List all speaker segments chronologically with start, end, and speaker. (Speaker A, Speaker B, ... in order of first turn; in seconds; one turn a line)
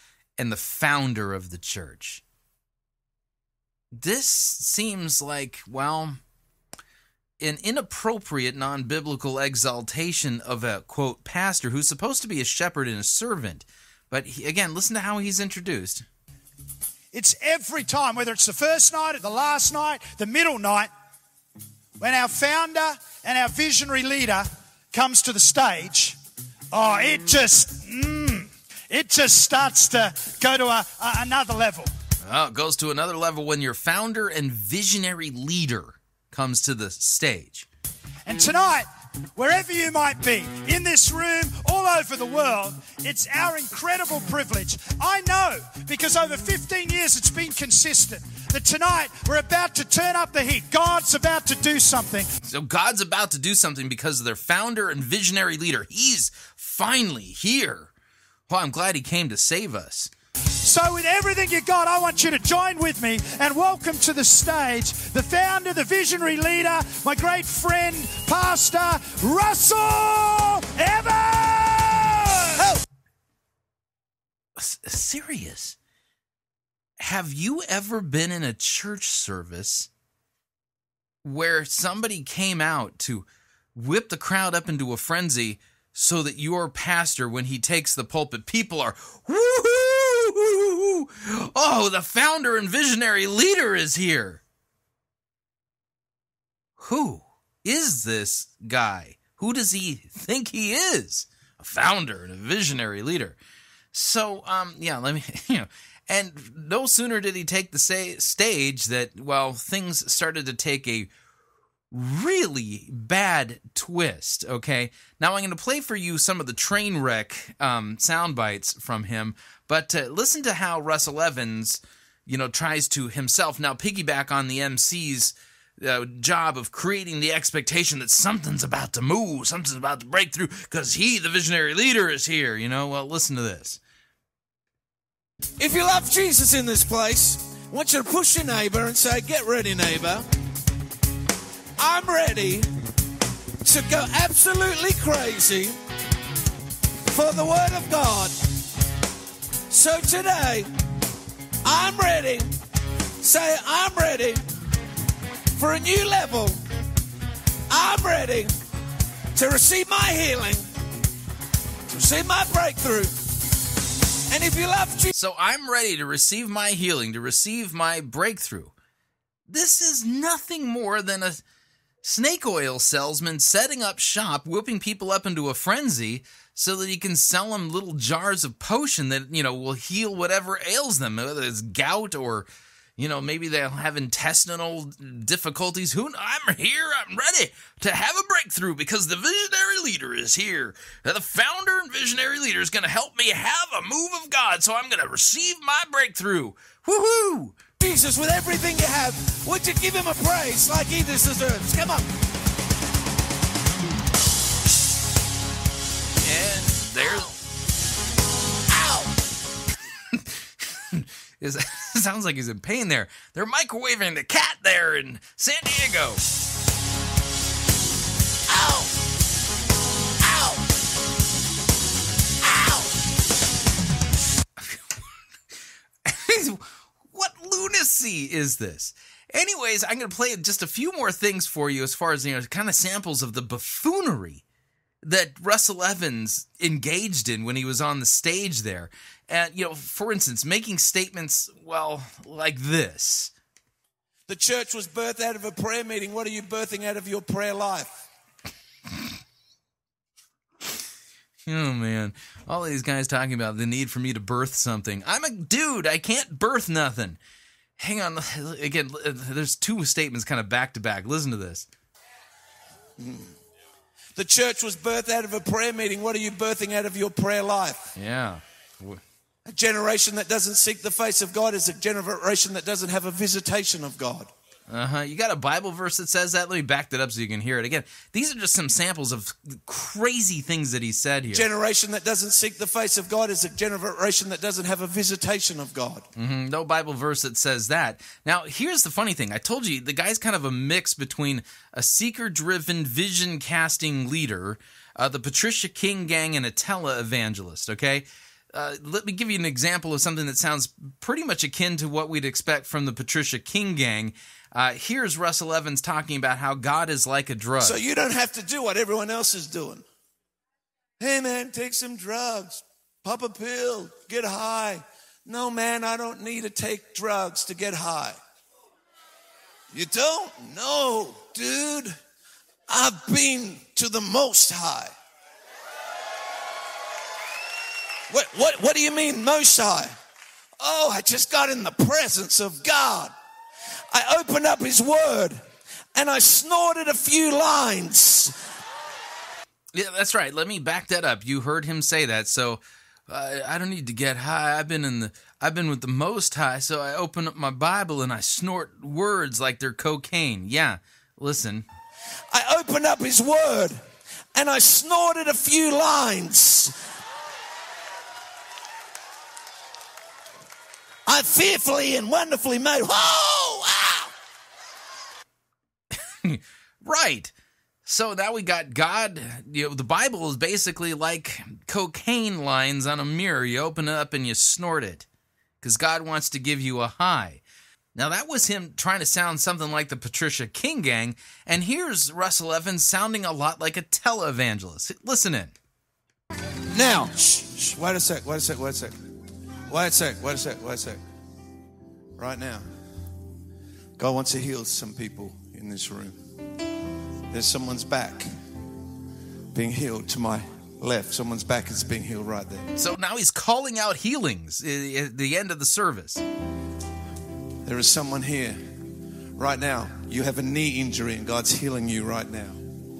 Speaker A: 0.4-2.2
Speaker A: 3.9-6.2
Speaker A: 7.4-16.1
Speaker B: 17.1-20.9
Speaker B: 22.0-26.2
Speaker B: 26.7-31.9
Speaker A: 32.2-37.7
Speaker B: 38.2-52.3
Speaker A: 52.4-57.9
Speaker A: 58.5-60.1
Speaker B: 60.6-72.7
Speaker A: 74.6-75.8
Speaker A: 77.0-79.9
Speaker A: 81.2-94.4
Speaker A: 96.8-103.3
Speaker A: 103.9-111.1
Speaker A: 111.9-133.8
Speaker C: 135.6-140.3
Speaker C: 141.8-142.7
Speaker C: 143.6-145.8
Speaker C: 147.1-148.4
Speaker C: 149.7-150.7
Speaker C: 151.6-152.5
Speaker C: 153.2-154.4
Speaker C: 155.6-156.6
Speaker C: 157.7-158.5
Speaker C: 159.3-160.7
Speaker C: 161.9-163.2
Speaker C: 164.3-165.1
Speaker A: 165.1-168.7
Speaker A: 169.5-171.4
Speaker A: 172.0-197.6
Speaker C: 197.8-202.1
Speaker A: 206.2-207.3
Speaker C: 208.7-209.1
Speaker A: 210.1-216.2
Speaker C: 218.5-218.8
Speaker C: 220.2-220.5
Speaker A: 224.6-225.0
Speaker A: 226.0-234.4
Speaker A: 235.0-243.3
Speaker C: 244.3-248.0
Speaker A: 251.4-257.2
Speaker A: 257.8-261.7
Speaker C: 263.0-263.4
Speaker C: 264.1-267.9
Speaker A: 267.9-269.0
Speaker C: 269.5-274.3
Speaker A: 274.7-281.4
Speaker C: 281.3-286.1
Speaker A: 286.1-307.8
Speaker C: 307.6-309.8
Speaker C: 311.0-318.2
Speaker C: 319.7-322.0
Speaker C: 322.7-324.9
Speaker C: 328.1-329.9
Speaker C: 330.6-333.1
Speaker C: 333.9-335.4
Speaker C: 335.9-338.4
Speaker A: 339.7-351.6
Speaker C: 352.3-353.8
Speaker C: 354.3-356.8
Speaker C: 361.1-364.1
Speaker A: 366.2-367.3
Speaker A: 367.8-375.1
Speaker A: 375.6-377.4
Speaker A: 377.9-385.5
Speaker C: 386.7-388.9
Speaker C: 389.7-391.0
Speaker C: 392.2-392.7
Speaker C: 394.0-396.2
Speaker C: 397.3-398.3
Speaker C: 399.5-402.7
Speaker A: 402.8-406.2
Speaker C: 407.6-408.7
Speaker C: 409.4-412.6